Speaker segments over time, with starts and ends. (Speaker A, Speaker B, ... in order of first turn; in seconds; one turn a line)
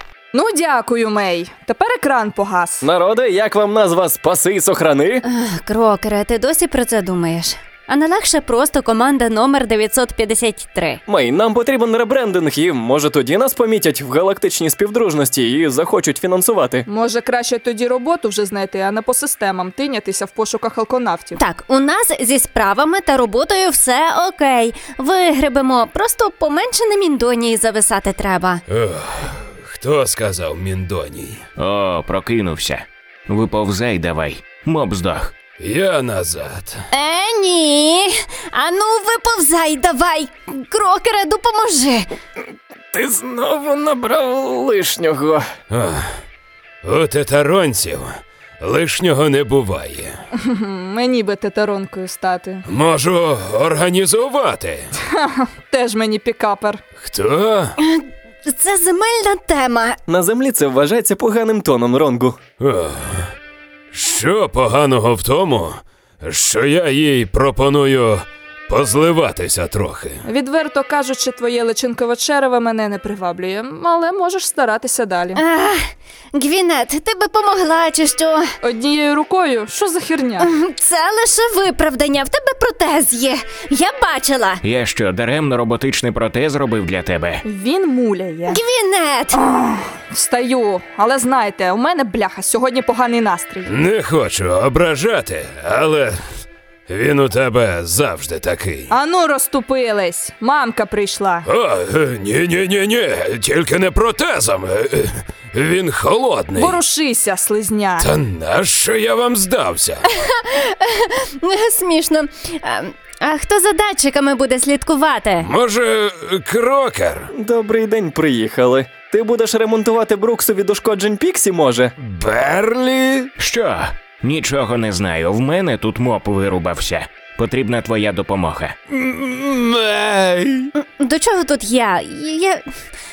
Speaker A: 0.3-2.8
Speaker B: 2.8-5.2
Speaker C: 5.2-11.0
Speaker B: 11.1-16.8
Speaker A: 16.9-21.4
Speaker C: 21.4-28.6
Speaker D: 28.7-31.4
Speaker E: 31.6-35.3
Speaker D: 35.6-36.8
Speaker C: 36.9-42.1
Speaker B: 42.9-45.5
Speaker D: 45.7-46.1
Speaker D: 46.8-50.2
Speaker A: 50.4-52.6
Speaker D: 52.7-54.9
Speaker A: 55.0-56.8
Speaker D: 57.0-57.7
Speaker C: 57.8-60.0
Speaker B: 60.1-62.4
Speaker D: 62.6-63.3
Speaker D: 63.9-70.2
Speaker A: 70.2-75.4
Speaker C: 75.3-75.8
Speaker C: 76.3-78.5
Speaker A: 78.6-80.5
Speaker C: 80.4-84.6
Speaker E: 84.6-87.4
Speaker A: 87.4-88.6
Speaker C: 88.5-89.4
Speaker A: 89.3-93.7
Speaker D: 93.7-96.2
Speaker D: 96.9-98.9
Speaker A: 98.9-101.5
Speaker D: 101.4-106.8
Speaker A: 106.5-108.1
Speaker D: 108.0-110.0
Speaker C: 110.1-115.5
Speaker D: 115.4-117.3
Speaker B: 117.4-121.9
Speaker D: 122.0-123.3
Speaker E: 123.4-128.8
Speaker D: 128.9-130.7
Speaker C: 130.8-132.6